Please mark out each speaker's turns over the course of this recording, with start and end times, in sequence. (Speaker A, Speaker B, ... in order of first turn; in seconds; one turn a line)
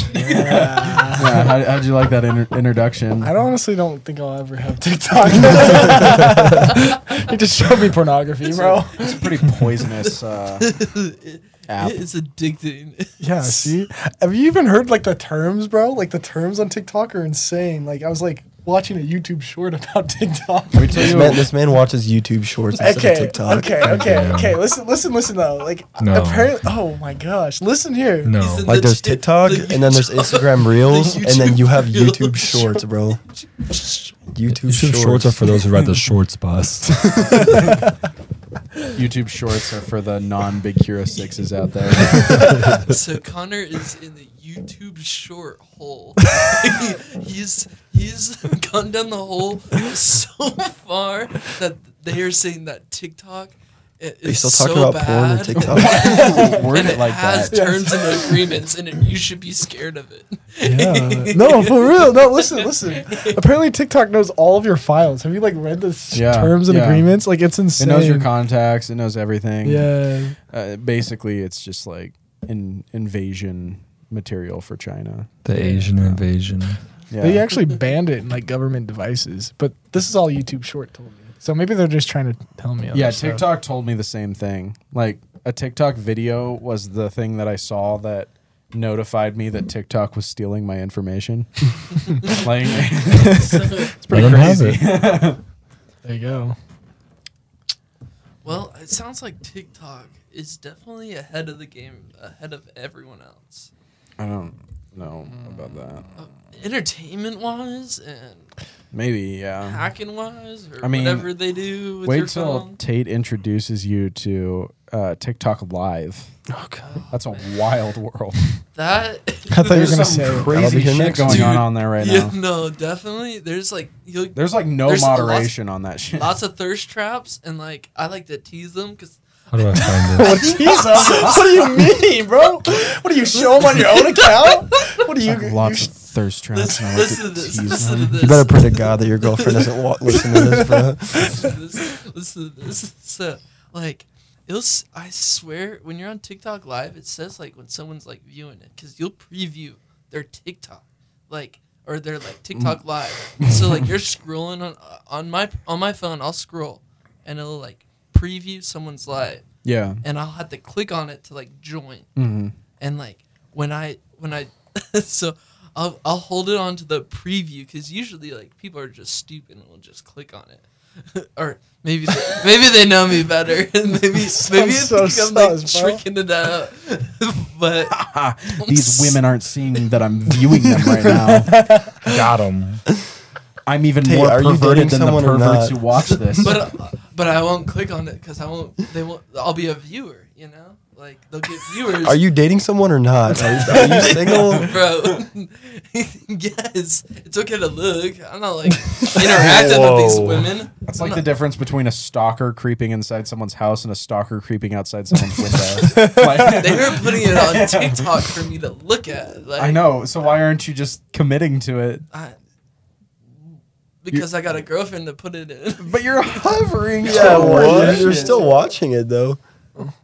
Speaker A: 0.1-1.5
Speaker B: 0.2-3.3
Speaker A: 3.2-9.2
Speaker B: 8.5-10.7
Speaker C: 8.5-13.7
Speaker B: 11.7-12.0
Speaker A: 13.2-21.4
Speaker B: 20.7-21.5
Speaker D: 20.9-24.1
Speaker A: 22.8-28.4
Speaker E: 23.7-24.6
Speaker E: 26.0-26.6
Speaker E: 28.2-28.7
Speaker C: 28.4-34.1
Speaker D: 28.6-33.2
Speaker D: 34.3-35.6
Speaker E: 34.5-37.0
Speaker D: 36.9-37.7
Speaker B: 38.9-42.8
Speaker C: 42.1-63.4
Speaker E: 42.4-42.9
Speaker D: 54.2-56.2
Speaker B: 55.6-57.6
Speaker A: 55.9-56.8
Speaker A: 57.5-58.4
Speaker A: 60.6-68.3
Speaker B: 66.1-67.1
Speaker B: 67.8-69.9
Speaker A: 69.6-70.3
Speaker B: 70.5-75.3
Speaker E: 75.4-76.8
Speaker B: 77.1-77.4
Speaker A: 77.2-83.5
Speaker B: 82.9-95.4
Speaker C: 93.1-94.3
Speaker E: 94.1-95.1
Speaker A: 96.0-96.5
Speaker C: 98.4-103.7
Speaker B: 104.2-106.1
Speaker C: 106.2-108.5
Speaker B: 108.9-109.9
Speaker C: 109.6-112.8
Speaker B: 110.8-111.3
Speaker B: 112.0-116.3
Speaker D: 116.5-116.8
Speaker C: 116.8-117.5
Speaker B: 117.1-118.4
Speaker C: 118.7-120.1
Speaker A: 119.5-120.5
Speaker B: 119.6-122.4
Speaker D: 120.3-121.6
Speaker C: 121.3-125.5
Speaker B: 124.3-126.4
Speaker C: 126.1-129.9
Speaker E: 129.5-130.6
Speaker A: 129.7-135.9
Speaker B: 130.9-131.4
Speaker C: 131.1-131.3
Speaker B: 135.2-138.3
Speaker C: 136.5-140.6
Speaker D: 138.2-141.5
Speaker A: 140.3-141.5
Speaker C: 141.2-159.4
Speaker B: 152.5-152.8
Speaker B: 153.4-153.9
Speaker B: 159.6-160.0
Speaker C: 160.0-162.1
Speaker B: 162.2-162.6
Speaker C: 162.8-179.3
Speaker A: 174.3-176.0
Speaker B: 177.9-181.6
Speaker A: 180.8-182.2
Speaker E: 182.0-182.8
Speaker B: 183.7-186.6
Speaker D: 184.0-186.5
Speaker C: 186.1-192.2
Speaker D: 191.9-194.7
Speaker C: 193.4-201.3
Speaker B: 194.3-194.7
Speaker E: 199.4-200.5
Speaker B: 200.8-208.3
Speaker A: 205.8-206.6
Speaker C: 206.1-209.9
Speaker B: 209.6-212.1
Speaker C: 214.0-218.4
Speaker B: 215.8-218.5
Speaker D: 217.0-219.4
Speaker A: 217.2-218.5